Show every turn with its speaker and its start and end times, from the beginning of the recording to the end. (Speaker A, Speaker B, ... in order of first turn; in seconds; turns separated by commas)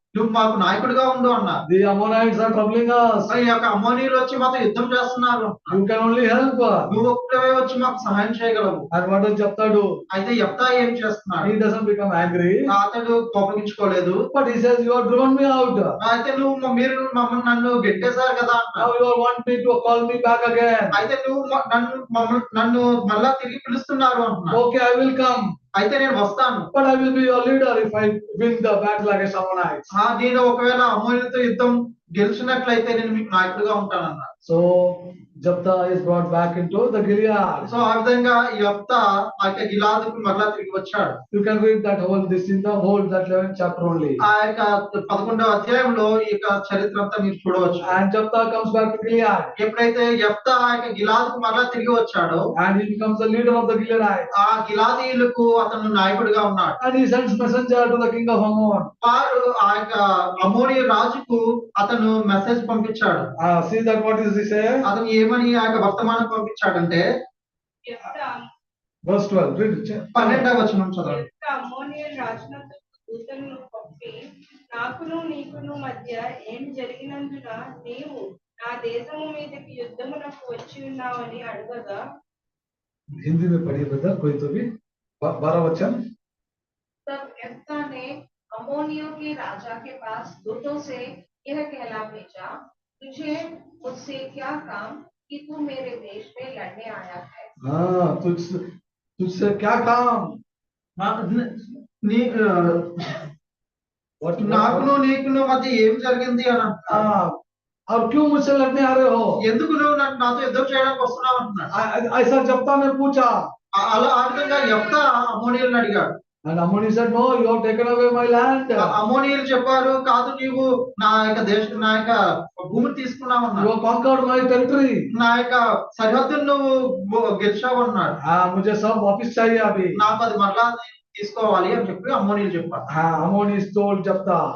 Speaker A: 0.1-1.6, Speaker B: 1.7-3.3, Speaker A: 3.3-5.8, Speaker B: 5.7-6.9, Speaker A: 6.9-8.9, Speaker B: 8.9-10.0, Speaker A: 10.1-11.5, Speaker B: 11.4-12.7, Speaker A: 12.7-14.2, Speaker B: 14.3-15.9, Speaker A: 16.0-18.9, Speaker B: 18.8-20.9, Speaker A: 20.9-24.6, Speaker B: 24.5-25.5, Speaker A: 25.8-26.7, Speaker B: 26.7-29.9, Speaker A: 29.9-34.3, Speaker B: 34.5-37.7, Speaker A: 37.6-41.2, Speaker B: 41.3-44.2, Speaker A: 44.2-47.9, Speaker B: 47.8-49.5, Speaker A: 49.6-52.5, Speaker B: 52.6-54.3, Speaker A: 54.3-56.8, Speaker B: 56.8-58.9, Speaker A: 59.0-63.3, Speaker B: 63.4-64.8, Speaker A: 64.8-67.1, Speaker C: 67.9-68.4, Speaker B: 69.1-70.5, Speaker A: 70.2-71.2, Speaker C: 71.0-74.2, Speaker C: 74.7-82.0, Speaker B: 83.2-84.7, Speaker B: 85.2-86.0, Speaker D: 87.1-97.5, Speaker B: 97.6-98.6, Speaker B: 99.2-100.4, Speaker A: 101.0-103.3, Speaker B: 104.2-104.9, Speaker A: 104.4-107.1, Speaker B: 106.9-107.3, Speaker B: 107.9-109.4, Speaker A: 109.4-111.7, Speaker B: 111.7-113.4, Speaker A: 113.8-116.1, Speaker B: 116.5-118.9, Speaker A: 118.8-123.7, Speaker B: 123.6-125.1, Speaker A: 125.1-128.2, Speaker B: 128.2-130.0, Speaker A: 130.0-132.9, Speaker B: 132.9-134.4